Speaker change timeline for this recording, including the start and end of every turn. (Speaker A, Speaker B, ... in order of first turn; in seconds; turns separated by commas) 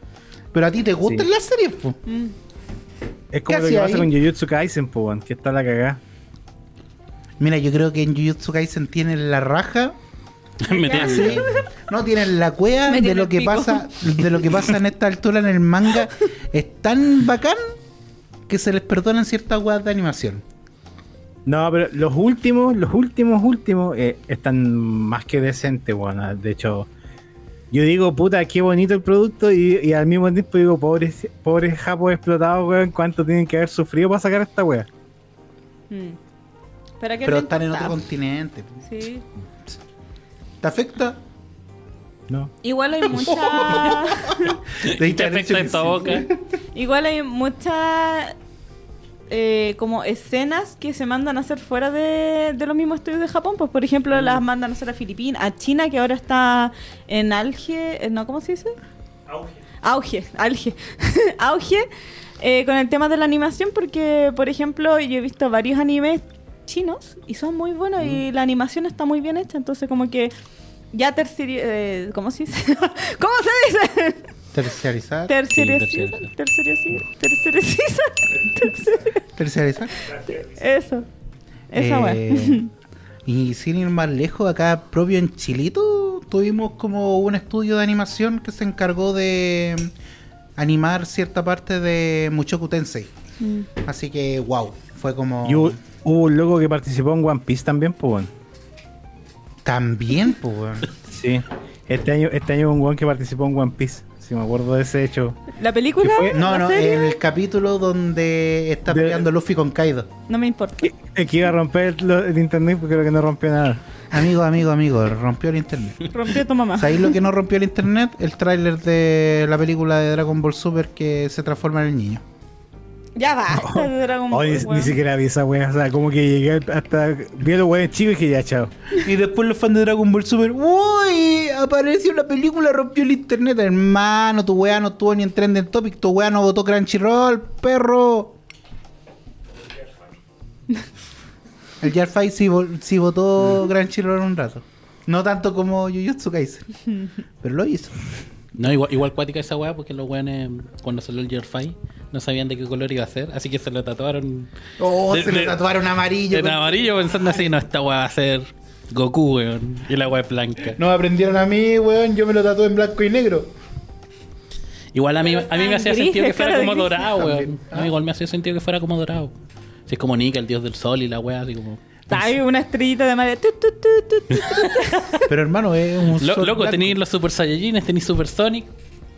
Speaker A: 0.5-2.0, Speaker B: 2.0-2.3, Speaker C: 3.3-6.0, Speaker A: 3.5-4.1, Speaker A: 7.4-10.0, Speaker D: 10.6-11.5, Speaker B: 10.7-11.6, Speaker A: 10.8-17.6, Speaker B: 12.9-13.9, Speaker A: 18.5-20.4, Speaker C: 21.4-26.9, Speaker C: 27.7-34.9, Speaker B: 35.9-36.2, Speaker B: 37.0-38.0, Speaker A: 37.2-38.8, Speaker B: 38.8-39.2, Speaker A: 40.6-41.2, Speaker B: 42.6-44.6, Speaker A: 43.1-46.3, Speaker D: 44.8-46.2, Speaker B: 46.7-48.4, Speaker B: 49.3-58.8, Speaker E: 59.3-59.6, Speaker B: 59.8-61.9, Speaker B: 62.4-70.3, Speaker B: 70.9-74.3, Speaker A: 74.5-75.3, Speaker B: 75.3-79.2, Speaker D: 75.5-76.3, Speaker E: 78.3-79.1, Speaker A: 79.4-79.9, Speaker E: 79.9-80.8, Speaker B: 80.5-81.0, Speaker B: 81.7-82.7, Speaker A: 81.7-82.7, Speaker A: 83.2-89.9, Speaker A: 90.6-93.1, Speaker B: 93.4-93.7, Speaker A: 93.8-95.8, Speaker C: 95.4-98.3, Speaker A: 99.6-100.9, Speaker C: 101.1-105.4, Speaker B: 105.5-107.2, Speaker C: 106.0-106.4, Speaker A: 106.3-110.1, Speaker C: 108.9-109.2, Speaker B: 110.3-110.9, Speaker C: 110.8-113.8, Speaker A: 114.1-116.1, Speaker B: 116.1-117.1, Speaker A: 116.7-122.2, Speaker B: 123.2-125.0, Speaker C: 123.5-128.7, Speaker A: 128.9-138.4, Speaker E: 139.5-140.2, Speaker A: 141.8-146.7, Speaker A: 147.4-148.1, Speaker D: 148.5-154.5, Speaker A: 154.8-157.5, Speaker D: 155.1-155.6, Speaker D: 156.3-160.8, Speaker A: 160.7-163.5, Speaker D: 164.9-169.3, Speaker B: 165.2-167.1, Speaker A: 167.1-167.9, Speaker D: 169.9-172.2, Speaker B: 172.1-175.2, Speaker D: 174.3-175.2, Speaker A: 175.3-177.0, Speaker D: 176.2-178.7